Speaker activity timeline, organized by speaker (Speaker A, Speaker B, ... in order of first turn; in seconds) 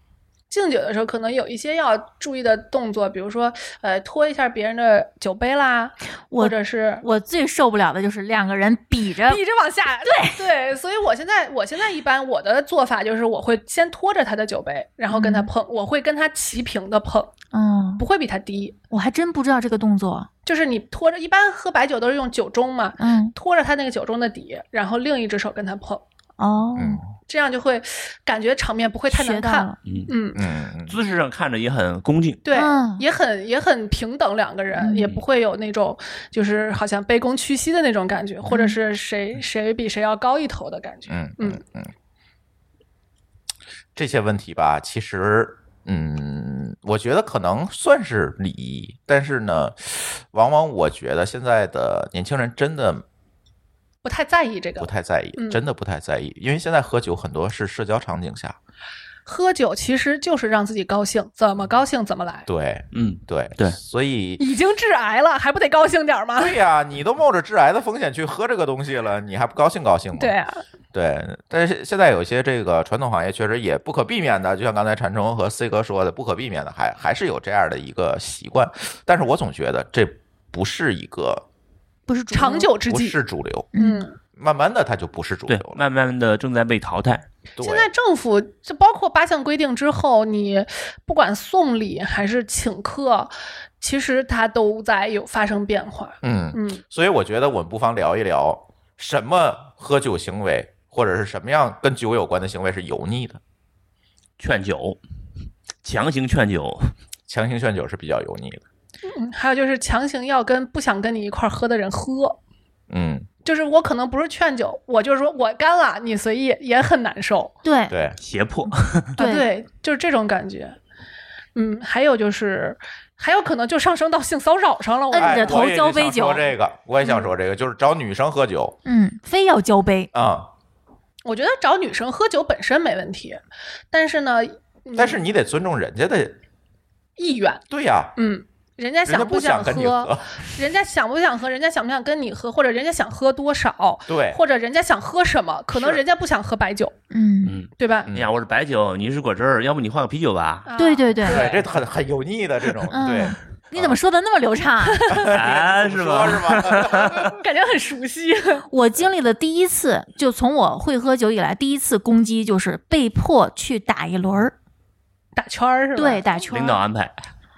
Speaker A: 0.5-7.0, 9.2-17.3, 18.0-18.8, 20.4-26.0, 27.2-30.4, 32.4-41.6, 54.0-55.6, 59.2-62.5, 64.4-66.6, 70.1-70.6, 82.3-83.2, 83.8-84.2, 87.6-96.8, 109.0-112.4, 113.4-117.6, 119.2-120.8, 121.5-125.6, 127.0-127.3, 131.2-135.2, 137.2-137.6, 138.2-146.9, 147.8-148.1, 150.7-151.6, 154.8-155.4, 157.3-158.7, 165.3-166.4
Speaker B: 6.3-9.4, 10.0-10.4, 15.1-15.5, 17.5-18.0, 18.9-20.3, 23.0-23.3, 26.4-27.0, 29.1-29.8, 32.5-33.0, 34.8-35.1, 38.5-38.8, 82.1-82.7, 83.7-84.0, 117.6-117.9, 119.2-119.5, 125.1-126.5, 128.8-130.1, 147.1-147.5, 150.8-151.6, 152.9-155.2, 158.7-164.5, 165.9-166.8
Speaker C: 26.8-27.1, 30.3-31.0, 41.1-41.9, 44.0-53.0, 54.8-58.6, 62.5-64.4, 66.4-70.3, 70.9-81.4, 82.9-83.7, 84.3-85.8, 87.6-87.9, 96.2-103.4, 107.3-108.6, 112.9-113.3, 117.9-118.2, 125.2-128.8, 130.1-130.5, 134.9-136.3, 137.7-138.1, 139.1-140.4, 144.1-144.4, 145.7-146.0, 151.2-154.0, 155.1-157.4
Speaker D: 29.8-30.1, 30.9-32.6, 62.9-63.8, 85.5-87.2, 104.4-105.0, 105.8-106.9, 118.2-119.2, 147.4-150.7, 155.3-157.3, 166.5-167.2